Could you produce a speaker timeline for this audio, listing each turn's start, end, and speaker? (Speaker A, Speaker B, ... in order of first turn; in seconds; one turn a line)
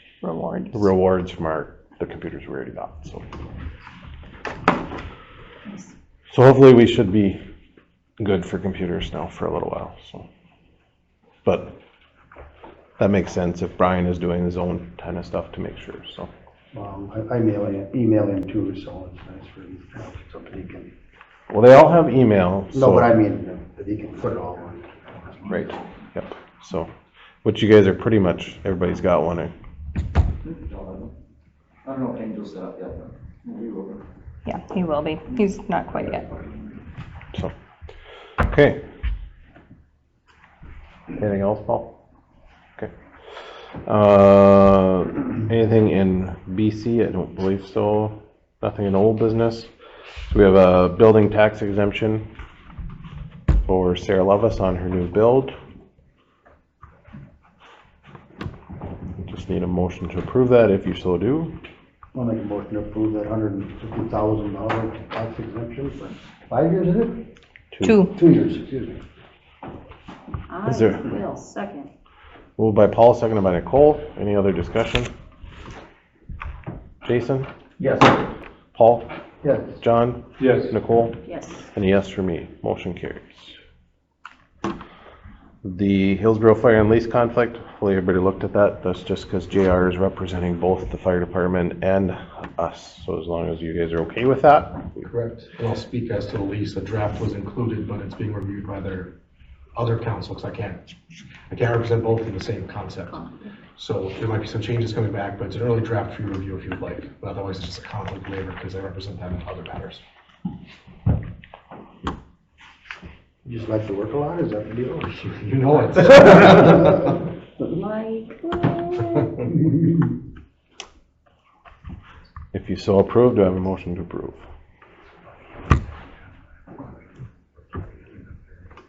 Speaker A: 0.2-0.9
Speaker B: 0.7-3.2
Speaker C: 5.7-5.9
Speaker B: 6.3-7.4
Speaker B: 8.2-10.3
Speaker B: 11.4-11.8
Speaker B: 13.0-16.3
Speaker D: 16.7-20.9
Speaker B: 21.5-23.1
Speaker D: 22.7-25.7
Speaker B: 25.5-26.9
Speaker B: 27.4-29.5
Speaker E: 30.4-31.1
Speaker E: 31.9-34.0
Speaker A: 34.5-36.3
Speaker B: 38.4-38.8
Speaker B: 41.2-41.9
Speaker B: 43.9-49.7
Speaker B: 50.3-52.3
Speaker B: 53.6-55.5
Speaker B: 59.2-61.5
Speaker D: 62.1-67.2
Speaker B: 67.7-68.0
Speaker A: 67.8-68.1
Speaker D: 68.1-69.0
Speaker C: 70.5-71.9
Speaker B: 70.7-71.0
Speaker B: 72.6-75.1
Speaker B: 77.0-77.5
Speaker E: 77.8-78.3
Speaker B: 78.8-79.1
Speaker D: 79.4-79.8
Speaker B: 79.8-81.2
Speaker F: 80.4-80.7
Speaker C: 81.2-81.7
Speaker B: 81.7-83.6
Speaker B: 85.6-95.0
Speaker D: 95.1-95.5
Speaker F: 95.5-99.1
Speaker F: 99.8-100.9
Speaker F: 101.5-103.2
Speaker C: 103.1-103.4
Speaker F: 103.8-110.0
Speaker D: 113.5-115.2
Speaker F: 115.1-117.0
Speaker C: 117.7-119.4
Speaker B: 122.5-124.5